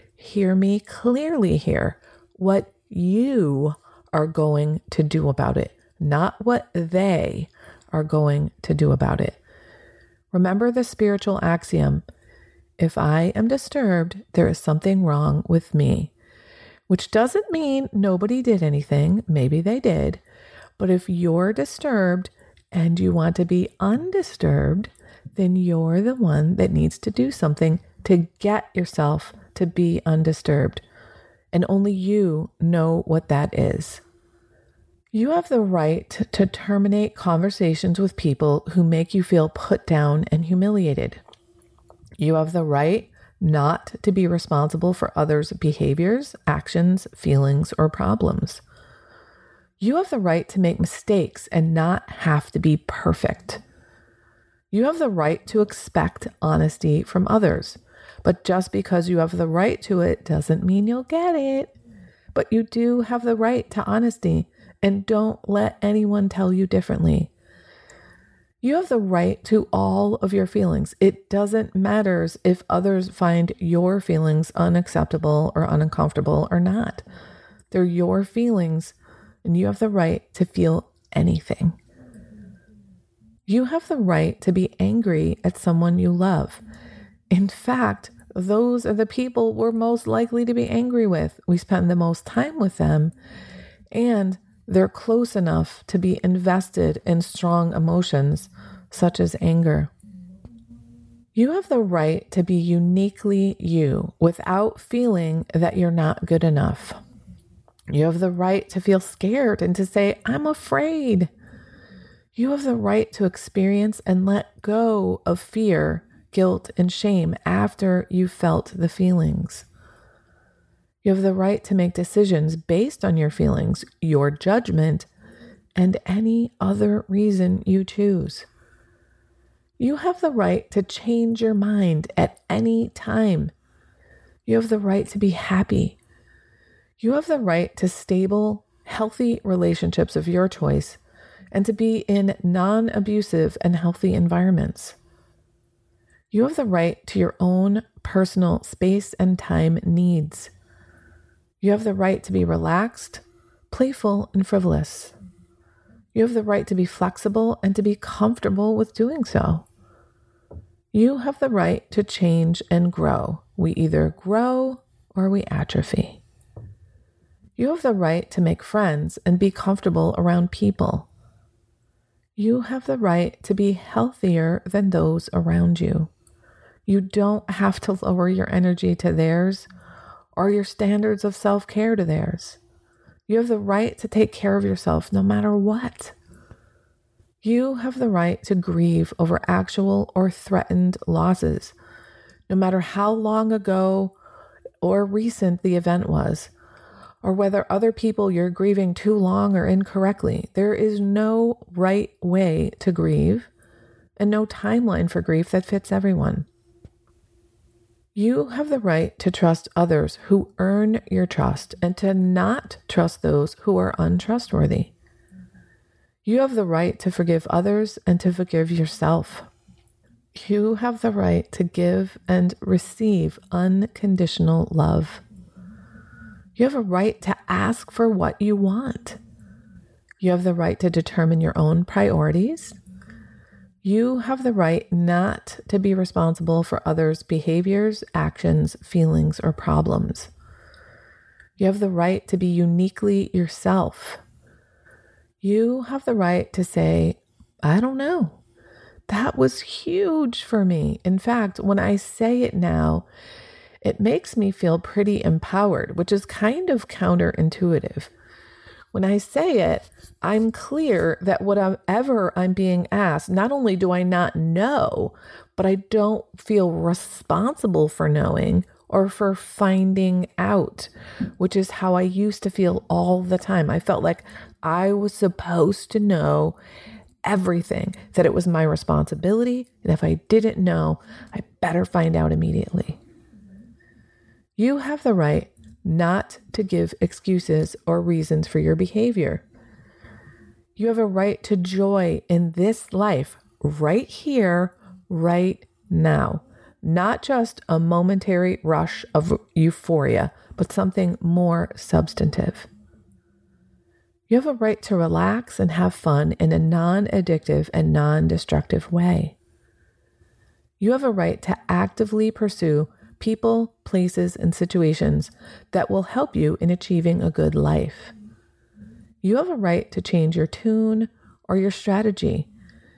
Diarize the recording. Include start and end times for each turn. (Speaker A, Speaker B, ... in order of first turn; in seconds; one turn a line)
Speaker A: 0.2-9.4
Speaker A: 10.3-12.1
Speaker A: 12.8-16.1
Speaker A: 16.9-20.2
Speaker A: 20.8-30.8
Speaker A: 31.5-34.0
Speaker A: 35.1-41.2
Speaker A: 42.2-48.6
Speaker A: 49.8-53.6
Speaker A: 54.7-61.7
Speaker A: 62.3-67.3
Speaker A: 68.6-77.0
Speaker A: 77.7-81.8
Speaker A: 83.5-86.6
Speaker A: 87.3-93.1
Speaker A: 93.9-99.9
Speaker A: 101.3-107.0
Speaker A: 107.9-111.3
Speaker A: 112.3-119.7
Speaker A: 121.0-125.1
Speaker A: 125.8-128.5
Speaker A: 129.8-133.5
Speaker A: 134.5-136.0
Speaker A: 137.0-141.0
Speaker A: 141.5-145.0
Speaker A: 146.3-150.5
Speaker A: 151.6-155.2
Speaker A: 156.1-159.7
Speaker A: 160.9-166.2
Speaker A: 167.6-171.1
Speaker A: 172.4-176.1
Speaker A: 176.9-179.7
Speaker A: 180.3-182.6
Speaker A: 183.3-186.2
Speaker A: 187.4-191.8
Speaker A: 192.5-194.2
Speaker A: 194.8-196.5
Speaker A: 197.2-203.5
Speaker A: 204.2-206.5
Speaker A: 208.2-214.9
Speaker A: 216.2-219.5
Speaker A: 220.3-225.2
Speaker A: 226.6-229.2
Speaker A: 230.2-232.8
Speaker A: 233.8-240.3
Speaker A: 241.6-244.2
Speaker A: 245.4-248.4
Speaker A: 249.1-253.1
Speaker A: 253.8-258.1
Speaker A: 258.9-276.6
Speaker A: 277.2-283.0
Speaker A: 284.6-289.4
Speaker A: 290.8-302.7
Speaker A: 304.3-309.4
Speaker A: 310.8-318.1
Speaker A: 319.2-322.5